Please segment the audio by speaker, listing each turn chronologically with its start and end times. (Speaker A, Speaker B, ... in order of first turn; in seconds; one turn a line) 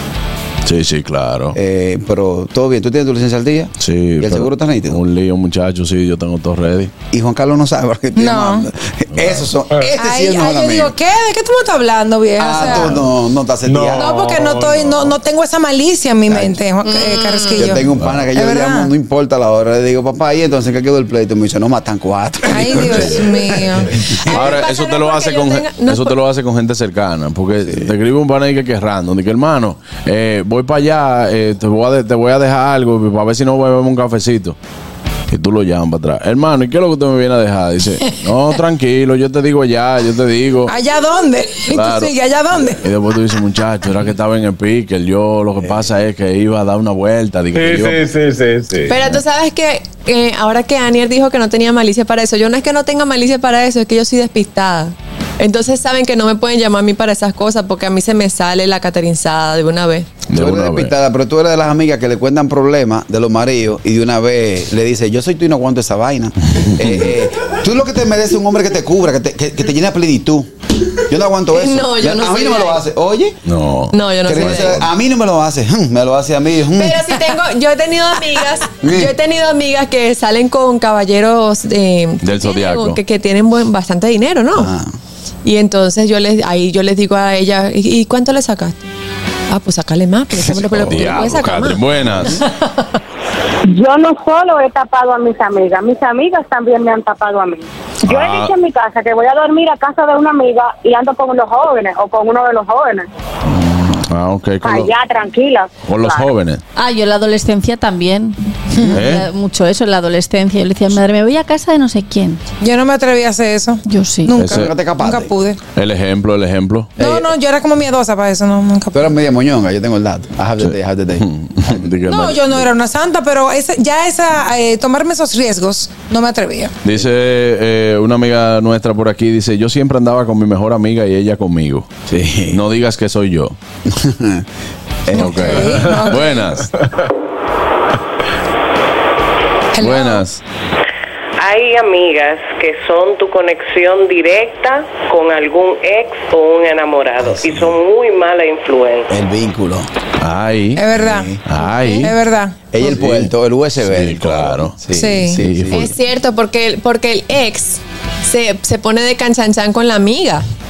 Speaker A: 0.7-1.6
Speaker B: 1.5-5.0
Speaker A: 3.8-6.9
Speaker B: 7.1-10.9
Speaker C: 8.2-8.7
Speaker A: 9.1-9.5
Speaker C: 10.0-12.9
Speaker B: 12.4-14.4
Speaker A: 12.6-13.1
Speaker D: 13.7-15.1
Speaker C: 13.9-17.8
Speaker B: 16.3-16.6
Speaker E: 17.1-17.5
Speaker B: 17.6-23.9
Speaker A: 18.0-18.3
Speaker C: 18.3-18.9
Speaker C: 22.4-24.5
Speaker A: 22.5-23.5
Speaker A: 24.3-34.6
Speaker E: 24.3-26.1
Speaker A: 35.3-40.8
Speaker C: 40.7-42.8
Speaker A: 41.7-48.1
Speaker D: 47.6-49.0
Speaker A: 49.0-49.2
Speaker E: 49.0-60.1
Speaker A: 60.3-60.9
Speaker B: 60.3-73.4
Speaker E: 71.6-72.7
Speaker A: 73.5-74.9
Speaker E: 73.9-74.7
Speaker B: 74.2-77.3
Speaker E: 76.8-84.6
Speaker B: 78.8-79.2
Speaker A: 82.2-83.0
Speaker B: 84.5-84.9
Speaker E: 85.4-88.8
Speaker E: 89.5-91.8
Speaker A: 90.4-92.5
Speaker F: 93.8-103.1
Speaker A: 98.1-98.5
Speaker A: 103.5-104.9
Speaker F: 104.6-106.3
Speaker A: 105.8-106.6
Speaker G: 106.8-112.4
Speaker A: 108.9-109.3
Speaker C: 112.6-115.6
Speaker G: 113.9-114.3
Speaker A: 114.3-114.8
Speaker B: 114.5-115.4
Speaker A: 115.8-116.9
Speaker B: 117.0-117.3
Speaker C: 117.0-119.1
Speaker B: 118.9-121.8
Speaker A: 120.6-122.7
Speaker C: 122.1-126.7
Speaker A: 126.8-131.9
Speaker B: 132.1-132.6
Speaker A: 132.5-133.6
Speaker B: 133.9-134.4
Speaker B: 135.1-135.9
Speaker A: 135.1-136.7
Speaker C: 135.2-136.3
Speaker C: 139.7-140.3
Speaker A: 139.8-140.4
Speaker H: 141.4-149.1
Speaker B: 147.2-147.8
Speaker B: 149.1-149.9
Speaker A: 150.2-152.1
Speaker C: 150.8-151.3
Speaker B: 151.0-151.4
Speaker C: 151.8-152.9
Speaker B: 152.7-155.9
Speaker A: 152.8-153.3
Speaker A: 153.8-155.9
Speaker C: 154.9-155.4
Speaker E: 155.8-160.5